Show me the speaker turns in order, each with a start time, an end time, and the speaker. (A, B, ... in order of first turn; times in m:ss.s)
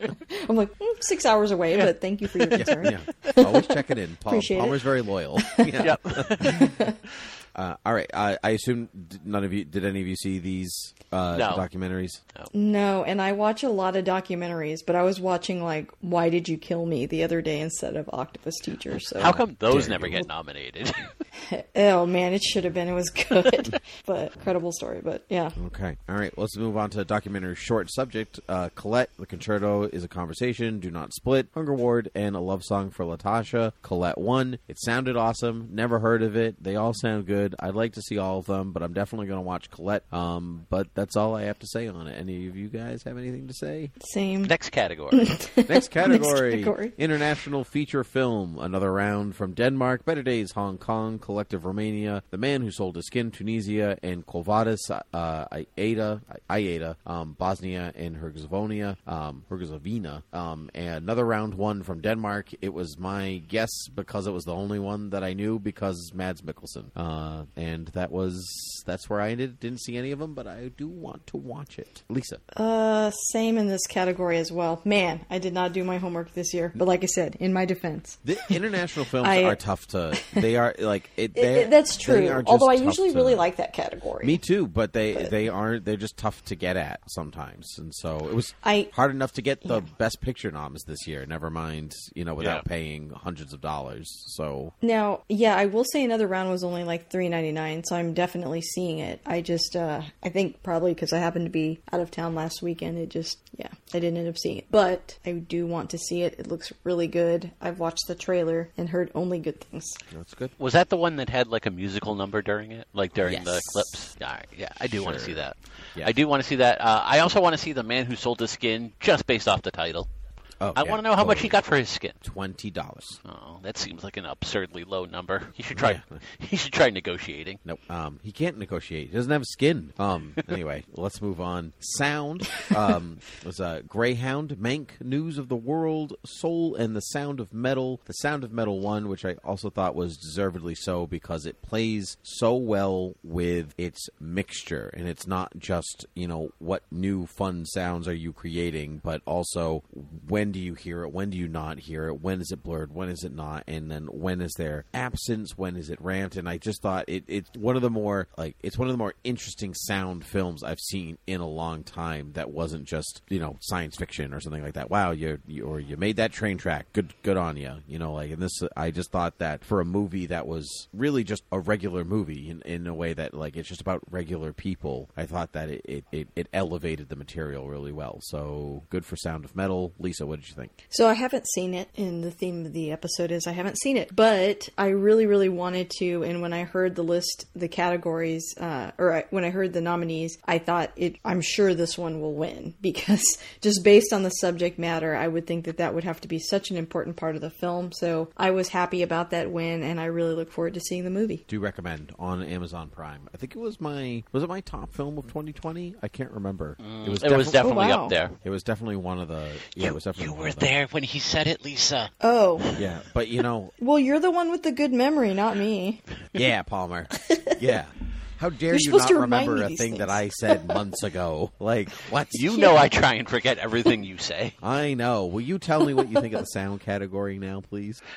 0:00.2-0:04.9 A
0:02.4-0:02.7 B
0:02.5-0:06.7 C
0:05.4-0:05.7 A
0:05.8-0:06.7 B
0:06.4-0:07.0 A
0:07.5-0:12.2 C
0:11.3-0:11.6 B
0:12.5-0:19.4 A
0:19.2-0:21.1 B
0:19.7-0:20.2 C
0:21.4-0:25.6 A
0:25.6-0:43.9 C
0:44.0-0:44.5 A
0:44.4-0:45.4 B
0:45.1-0:47.0 A
0:45.7-1:12.4 C
1:12.5-1:18.6 A
1:18.2-1:23.5 C
1:19.2-1:19.6 A
1:20.2-1:20.4 A
1:21.4-1:24.4 A
1:24.2-1:34.7 C
1:28.6-1:28.9 A
1:32.4-1:32.6 B
1:34.8-1:50.0 A
1:50.1-1:50.5 C
1:50.6-2:00.1 B
1:53.2-1:54.0 C
1:55.0-1:55.4 C
2:00.6-2:01.6 C
2:00.7-2:02.2 B
2:02.2-2:03.2 C
2:03.2-2:07.6 B
2:05.7-2:06.2 C
2:07.6-3:00.7 C
3:00.9-3:21.4 A
3:21.5-3:27.6 C
3:26.8-3:28.4 B
3:27.4-3:28.1 A
3:28.4-3:30.7 C
3:29.7-3:32.8 B
3:32.2-3:32.7 A
3:32.8-3:33.7 C
3:33.8-3:36.0 A
3:36.3-3:42.6 C
3:37.2-3:37.6 A
3:38.7-3:40.8 A
3:42.3-3:44.6 B
3:42.5-3:42.8 A
3:44.6-3:48.0 C